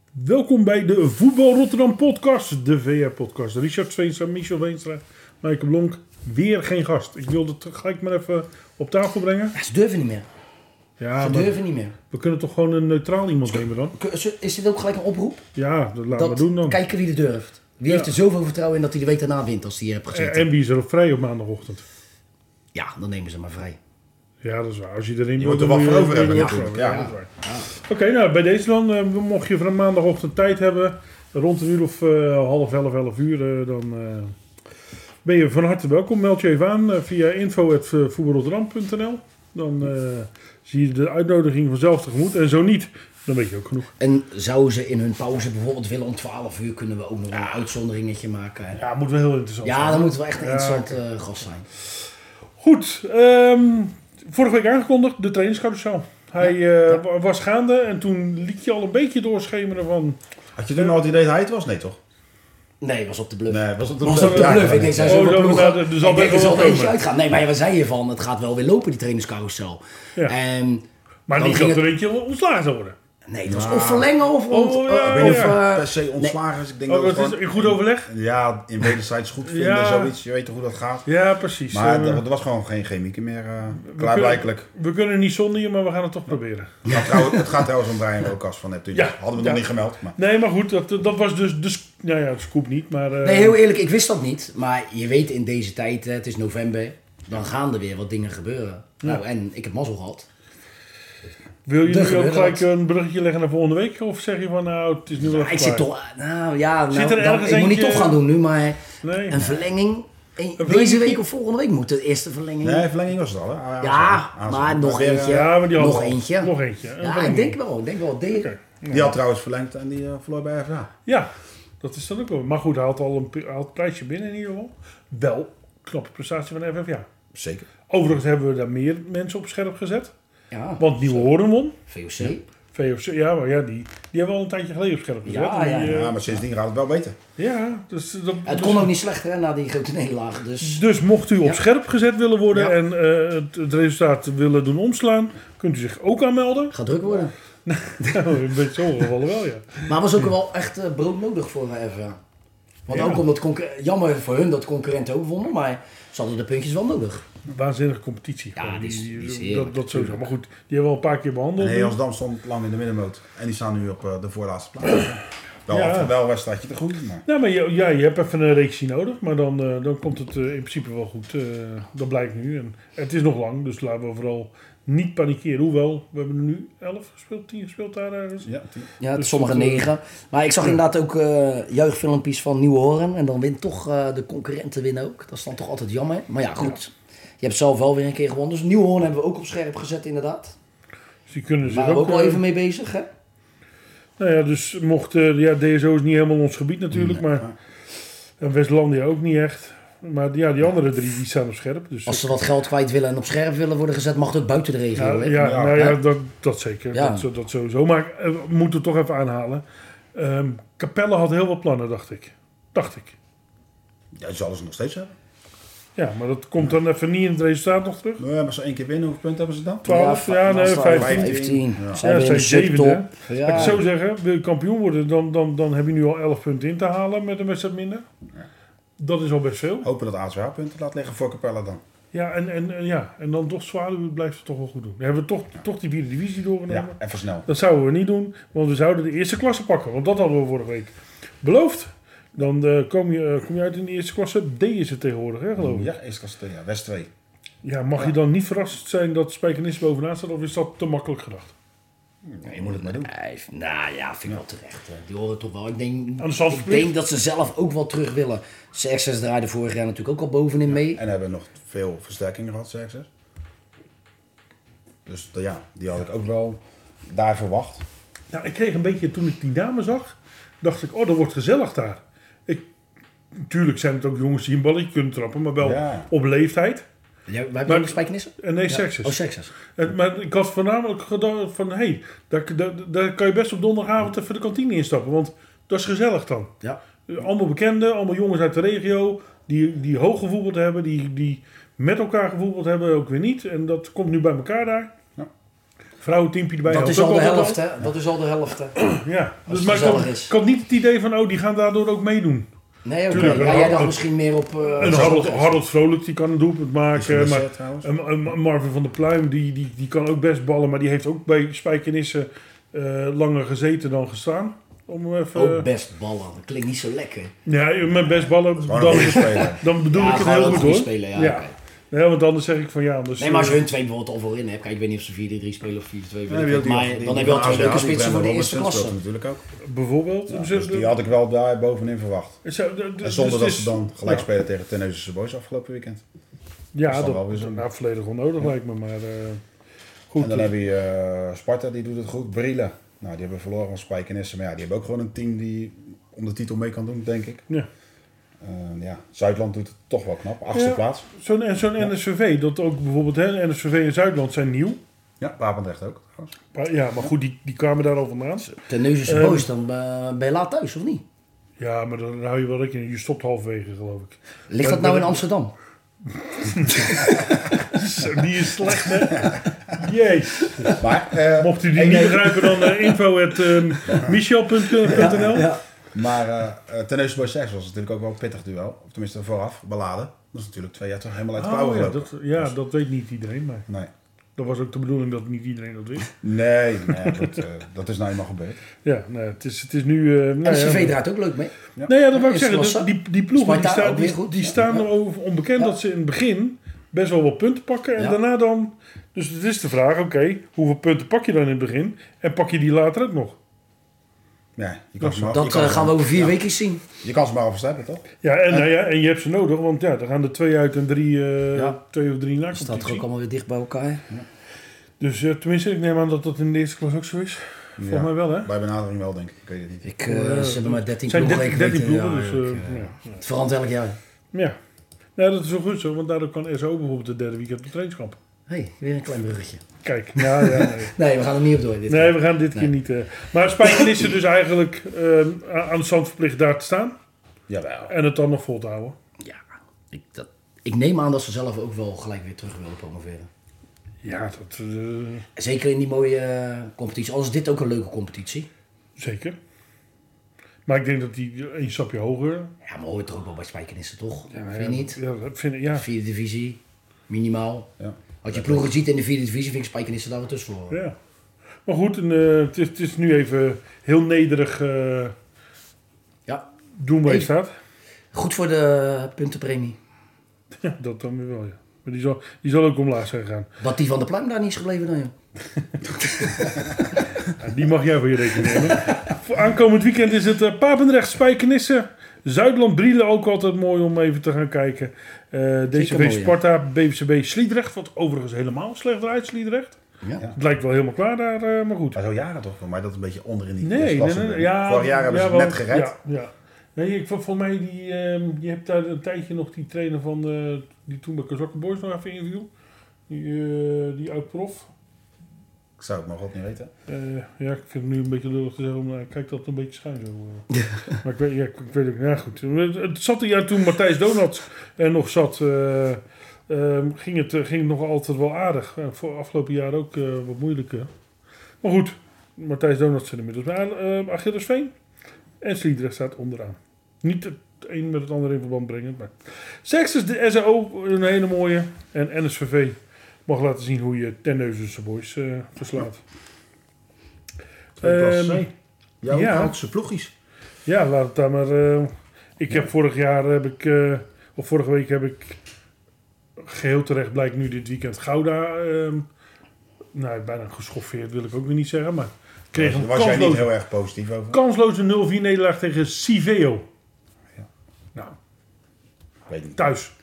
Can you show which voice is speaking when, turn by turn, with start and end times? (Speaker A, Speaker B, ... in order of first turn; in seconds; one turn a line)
Speaker A: 0.2-9.5
Speaker B: 9.6-10.3
Speaker A: 11.0-11.6
Speaker B: 11.2-11.9
Speaker A: 12.1-13.9
Speaker B: 13.9-15.4
Speaker A: 15.6-16.8
Speaker B: 16.1-20.5
Speaker A: 17.9-18.1
Speaker A: 20.1-21.8
Speaker B: 22.7-23.8
Speaker A: 24.4-34.3
Speaker C: 25.4-27.1
Speaker B: 26.3-27.7
Speaker A: 35.2-43.9
Speaker B: 44.0-48.8
Speaker A: 48.8-51.0
Speaker B: 49.6-51.7
Speaker A: 52.6-60.2
Speaker B: 56.4-57.0
Speaker C: 60.6-62.0
Speaker B: 62.8-70.8
Speaker C: 63.5-65.3
Speaker A: 64.0-67.0
Speaker A: 71.3-73.0
Speaker B: 71.4-71.8
Speaker B: 73.3-76.4
Speaker C: 73.5-74.1
Speaker A: 74.5-75.6
Speaker C: 75.1-81.1
Speaker A: 76.9-78.1
Speaker A: 79.4-80.1
Speaker A: 81.1-82.2
Speaker C: 81.7-84.7
Speaker A: 83.8-86.8
Speaker B: 86.9-87.5
Speaker C: 86.9-90.2
Speaker A: 88.9-89.7
Speaker A: 90.2-93.6
Speaker B: 93.2-100.3
Speaker A: 101.7-105.9
Speaker B: 101.8-102.7
Speaker B: 105.2-112.9
Speaker A: 106.9-108.2
Speaker A: 109.0-109.6
Speaker A: 110.6-111.2
Speaker C: 112.6-115.5
Speaker B: 113.8-118.5
Speaker A: 115.3-117.6
Speaker A: 118.3-119.2
Speaker C: 118.9-120.9
Speaker A: 121.8-127.1
Speaker C: 127.3-127.7
Speaker A: 127.9-130.1
Speaker B: 130.5-132.4
Speaker A: 130.8-131.8
Speaker A: 132.7-136.2
Speaker B: 135.2-136.1
Speaker C: 135.8-137.2
Speaker A: 137.4-138.9
Speaker B: 138.5-140.8
Speaker A: 140.6-146.8
Speaker B: 146.7-147.3
Speaker A: 147.7-150.0
Speaker B: 149.9-152.2
Speaker B: 152.9-157.3
Speaker A: 152.9-153.2
Speaker A: 157.5-162.0
Speaker B: 158.6-160.2
Speaker C: 161.6-167.2
Speaker A: 165.7-166.2
Speaker A: 167.3-178.5
Speaker C: 178.4-178.9
Speaker B: 179.0-190.6
Speaker A: 179.2-179.9
Speaker A: 191.3-192.4
Speaker B: 191.7-193.1
Speaker A: 194.2-197.5
Speaker A: 198.4-202.4
Speaker B: 202.1-206.0
Speaker A: 204.9-213.2
Speaker C: 205.4-205.9
Speaker B: 206.9-207.2
Speaker C: 214.2-215.1
Speaker A: 216.0-218.2
Speaker C: 218.2-219.9
Speaker A: 219.8-221.4
Speaker B: 219.8-223.8
Speaker C: 220.9-222.0
Speaker A: 222.0-228.0
Speaker A: 229.0-229.9
Speaker C: 229.8-231.8
Speaker A: 232.1-245.9
Speaker C: 236.7-237.5
Speaker C: 245.6-247.1
Speaker A: 247.6-251.5
Speaker C: 252.2-253.1
Speaker B: 252.5-261.0
Speaker A: 256.2-256.9
Speaker C: 260.7-263.1
Speaker C: 265.1-267.9
Speaker A: 268.3-272.6
Speaker A: 273.4-276.9
Speaker C: 275.6-276.1
Speaker B: 277.3-279.5
Speaker A: 277.7-286.5
Speaker A: 287.1-294.9
Speaker A: 296.0-297.6
Speaker B: 296.7-298.8
Speaker A: 298.8-302.5
Speaker B: 299.5-300.4
Speaker B: 302.9-305.6
Speaker A: 303.1-304.0
Speaker A: 304.8-315.7
Speaker C: 306.9-307.9
Speaker B: 315.3-317.3
Speaker A: 317.5-323.7
Speaker C: 318.6-319.6
Speaker B: 318.9-321.5
Speaker B: 323.2-329.0
Speaker C: 326.3-329.5
Speaker A: 329.6-331.0
Speaker C: 330.3-332.4
Speaker A: 332.4-334.3
Speaker C: 333.0-336.0
Speaker A: 336.7-339.4
Speaker C: 336.9-337.7
Speaker A: 340.1-340.5
Speaker C: 340.2-347.4
Speaker C: 348.4-351.1
Speaker A: 350.5-354.8
Speaker C: 355.2-356.4
Speaker A: 356.5-358.5
Speaker B: 358.4-361.0
Speaker A: 359.1-359.5
Speaker A: 361.6-365.2
Speaker B: 364.5-365.5
Speaker A: 366.3-370.8
Speaker B: 370.5-370.8
Speaker C: 370.8-372.3
Speaker A: 371.3-375.5
Speaker B: 372.4-372.9
Speaker C: 373.9-374.1
Speaker B: 374.7-375.6
Speaker C: 375.9-382.5
Speaker A: 381.4-383.7
Speaker A: 384.4-386.2
Speaker C: 386.2-388.6
Speaker A: 388.8-391.0
Speaker B: 390.4-391.5
Speaker A: 391.9-403.4
Speaker B: 392.1-394.9
Speaker C: 404.6-406.4
Speaker A: 405.0-405.3
Speaker B: 405.3-406.8
Speaker C: 407.0-408.1
Speaker A: 408.2-413.1
Speaker B: 412.5-414.1
Speaker A: 415.0-418.5
Speaker C: 417.8-419.9
Speaker B: 419.8-424.0
Speaker A: 420.1-423.2
Speaker A: 425.2-428.2
Speaker B: 428.5-429.6
Speaker A: 429.8-431.0
Speaker B: 430.2-432.7
Speaker A: 431.9-436.9
Speaker B: 433.6-434.0
Speaker C: 437.5-437.9
Speaker A: 437.9-439.0
Speaker B: 439.2-443.3
Speaker A: 444.0-445.3
Speaker B: 445.4-448.5
Speaker A: 449.0-449.4
Speaker A: 450.7-452.5
Speaker B: 452.6-455.0
Speaker A: 454.3-455.9
Speaker B: 455.8-457.7
Speaker C: 457.8-458.7
Speaker B: 458.2-460.8
Speaker A: 460.7-460.9
Speaker A: 461.7-465.1
Speaker A: 466.8-467.5
Speaker B: 468.1-469.8
Speaker A: 470.6-473.5
Speaker B: 473.6-475.1
Speaker A: 477.4-489.8
Speaker B: 485.7-486.4
Speaker A: 490.3-492.0
Speaker C: 491.9-495.9
Speaker A: 493.6-502.5
Speaker A: 503.1-504.7
Speaker C: 505.8-506.7
Speaker A: 506.9-520.9
Speaker B: 510.5-510.9
Speaker A: 521.6-524.7
Speaker A: 525.4-532.8
Speaker A: 533.3-536.0
Speaker C: 537.8-538.5
Speaker A: 537.8-538.5
Speaker C: 539.0-540.1
Speaker A: 539.1-539.6
Speaker A: 540.7-545.4
Speaker A: 546.4-549.1
Speaker A: 549.9-553.5
Speaker C: 552.5-554.4
Speaker A: 554.3-556.6
Speaker C: 559.3-559.6
Speaker A: 559.6-559.9